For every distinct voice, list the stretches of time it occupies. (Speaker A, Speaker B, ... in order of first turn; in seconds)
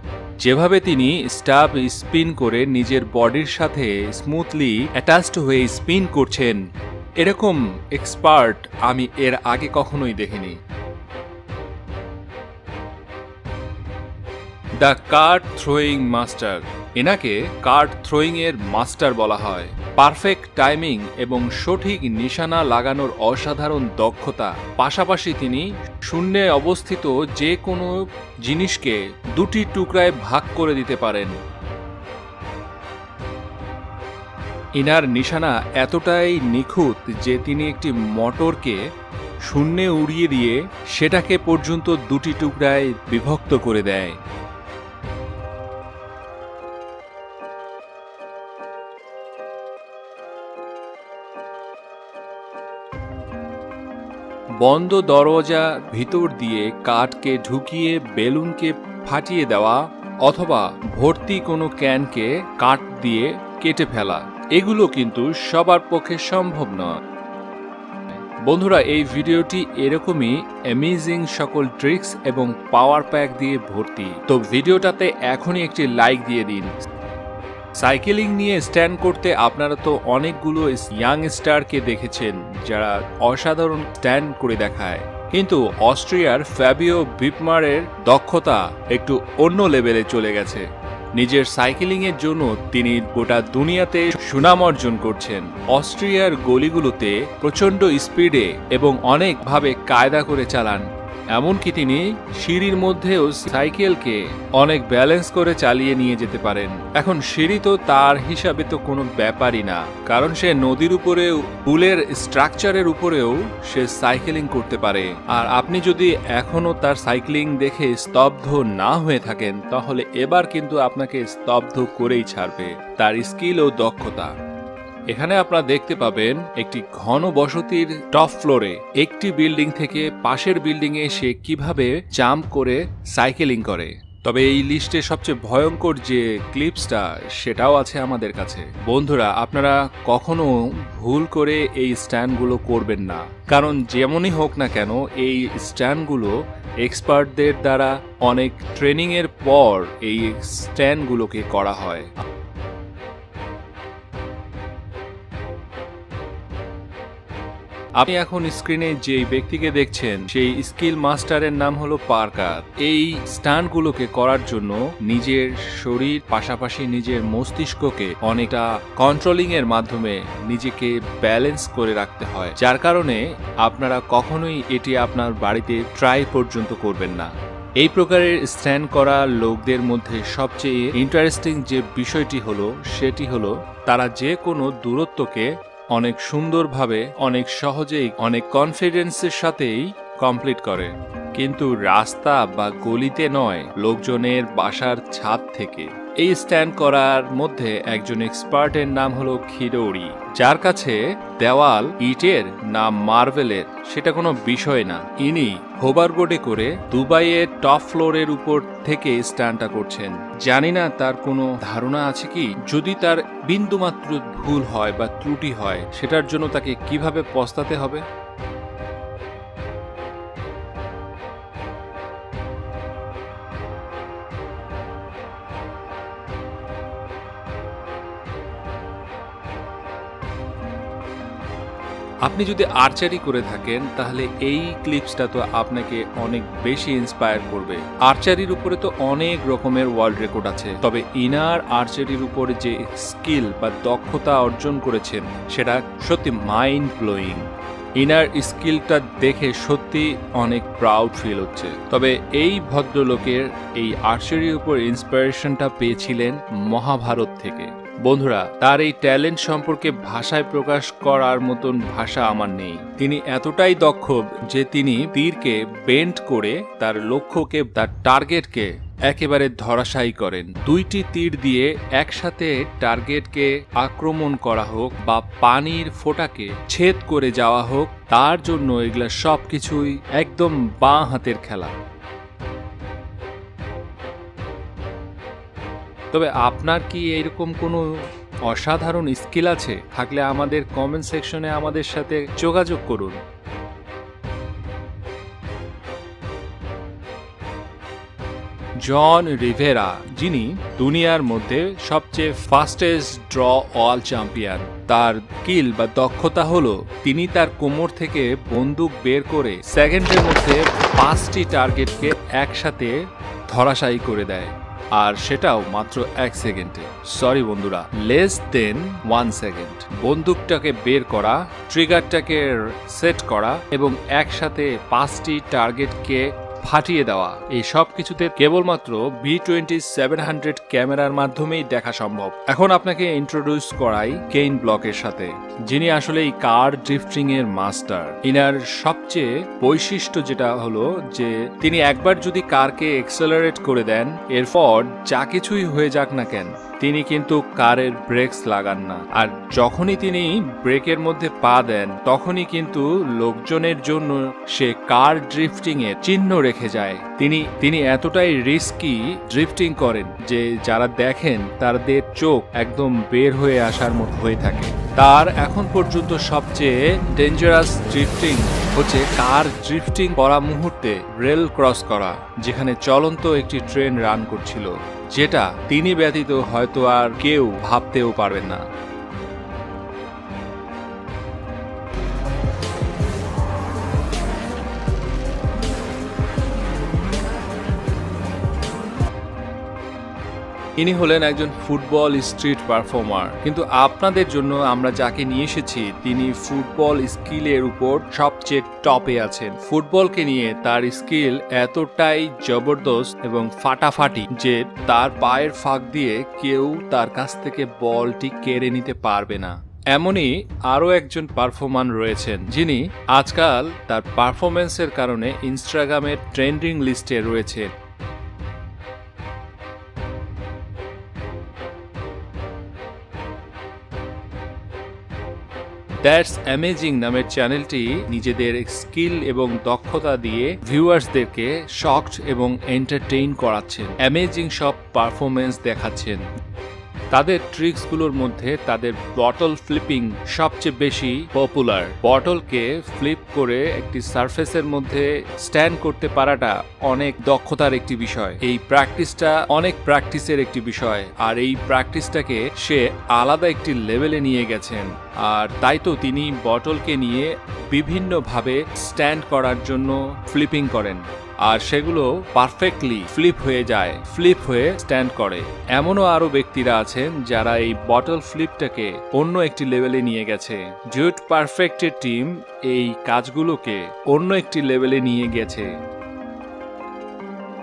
Speaker A: 0.4-6.6, 7.2-10.6, 14.8-31.4, 34.8-38.8, 39.5-44.2, 54.6-66.9, 68.5-76.7, 77.8-90.7, 91.2-124.3, 125.1-152.1, 158.0-218.0, 232.3-247.4, 248.0-281.7, 286.1-293.2, 298.8-313.0, 313.5-378.6, 390.8-417.7, 426.0-436.2, 437.1-475.7